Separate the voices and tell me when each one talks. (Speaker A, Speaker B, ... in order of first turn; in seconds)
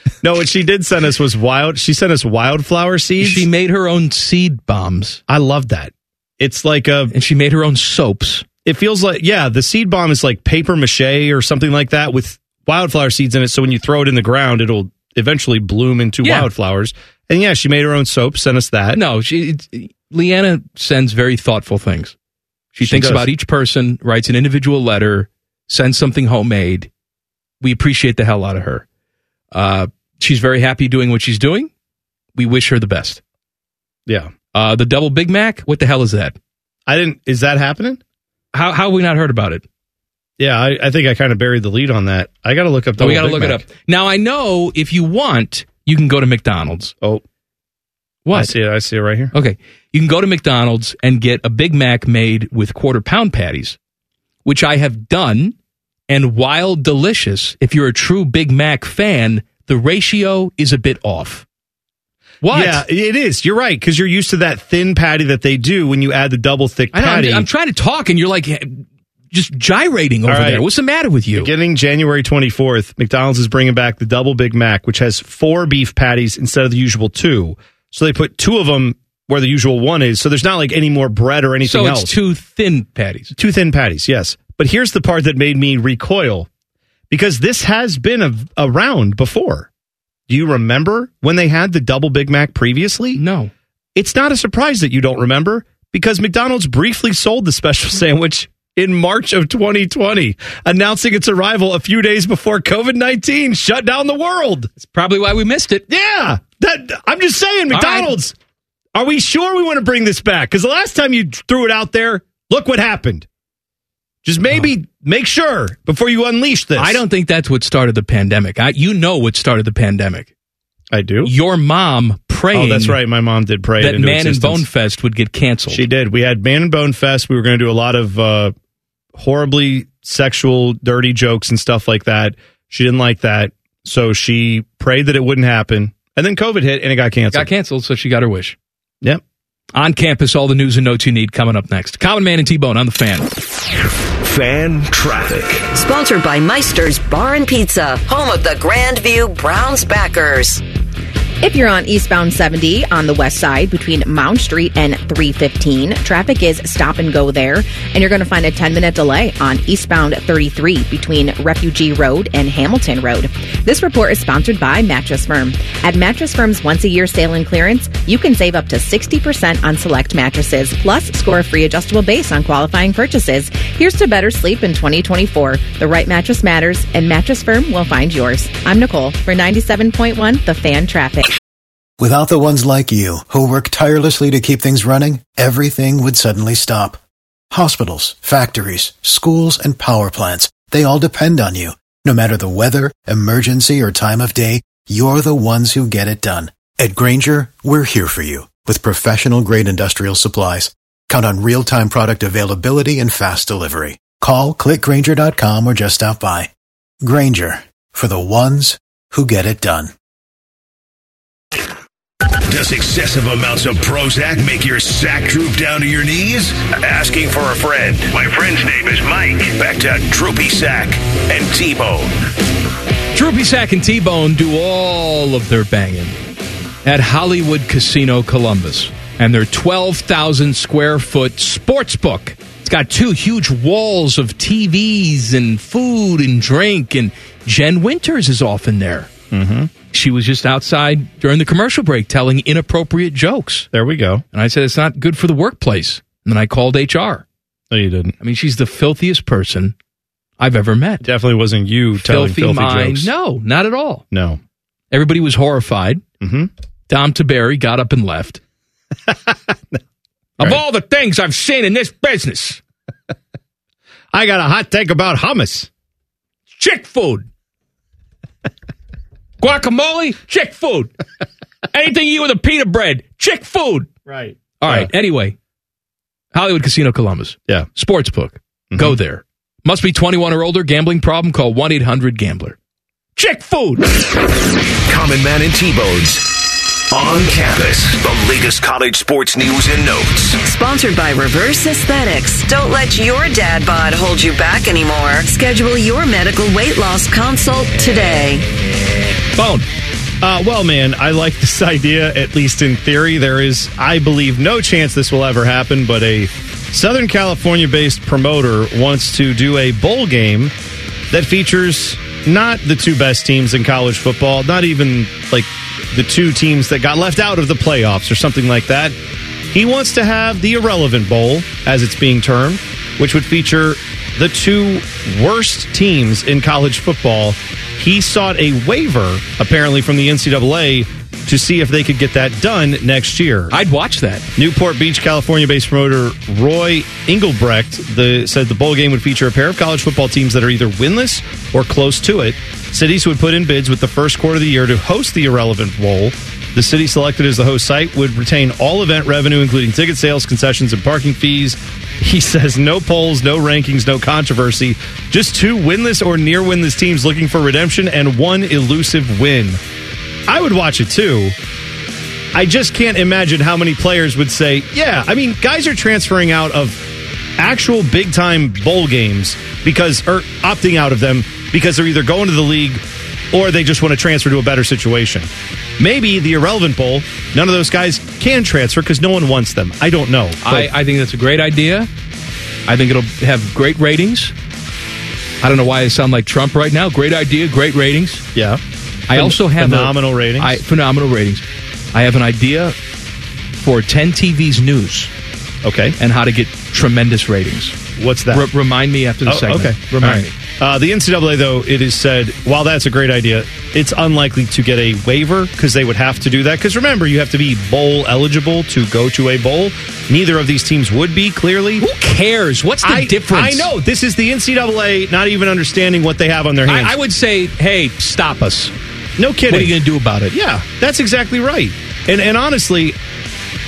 Speaker A: 0.2-3.5, 5.3-7.1, 8.6-19.0, 22.8-23.3, 34.1-34.3, 36.9-38.0, 40.4-43.6, 48.3-49.3, 62.5-67.5, 70.2-70.6, 71.3-82.1, 83.3-86.5, 87.1-89.7, 90.3-93.2, 93.9-104.7, 105.9-108.3, 108.9-113.2, 114.2-117.0, 120.9-121.3, 122.5-124.6, 125.7-128.5, 129.1-137.5, 239.3-239.7, 243.7-244.2, 247.7-248.1, 251.0-253.1, 254.1-254.4, 256.2-256.5, 259.1-259.8, 264.1-265.7, 274.1-274.9, 300.2-310.5, 311.1-318.9, 319.5-333.6, 334.4-359.6, 360.3-361.4, 362.3-380.7, 388.3-390.6, 395.6-396.0, 398.0-398.5, 399.2-411.9, 412.8-417.0, 419.2-419.7, 420.3-422.9
Speaker B: 3.2-5.2, 7.1-8.4, 16.2-16.5, 18.9-22.1, 22.7-26.9, 27.6-28.8, 29.5-31.7, 32.3-33.2, 34.5-36.4, 38.5-39.6, 43.0-46.9, 48.2-48.5, 49.3-53.8, 54.4-55.5, 56.1-61.4, 62.4-62.8, 66.9-71.5, 81.6-83.3, 93.2-93.5, 104.8-105.8, 107.7-108.1, 116.8-120.3, 121.2-123.0, 123.8-125.8, 137.3-138.6, 139.7-143.3, 223.1-226.1, 226.8-239.1, 239.9-243.7, 244.3-247.2, 248.2-249.7, 250.4-251.0, 252.0-254.0, 254.9-256.0, 256.9-258.4, 260.4-262.6, 266.6-267.2, 269.4-270.9, 271.7-273.9, 274.6-275.4, 276.3-282.6, 283.2-283.9, 299.3-299.6, 333.5-334.2, 380.4-381.9, 382.6-384.3, 385.4-388.2, 389.1-392.7, 393.6-395.1, 396.0-397.8, 398.3-400.3, 411.8-413.7, 416.6-418.7, 419.5-420.3
Speaker C: 144.2-145.7, 212.4-222.1, 284.9-290.4
Speaker D: 145.7-150.6, 290.4-298.5
Speaker E: 151.4-181.3
Speaker F: 182.0-187.0, 187.5-206.5, 207.0-209.9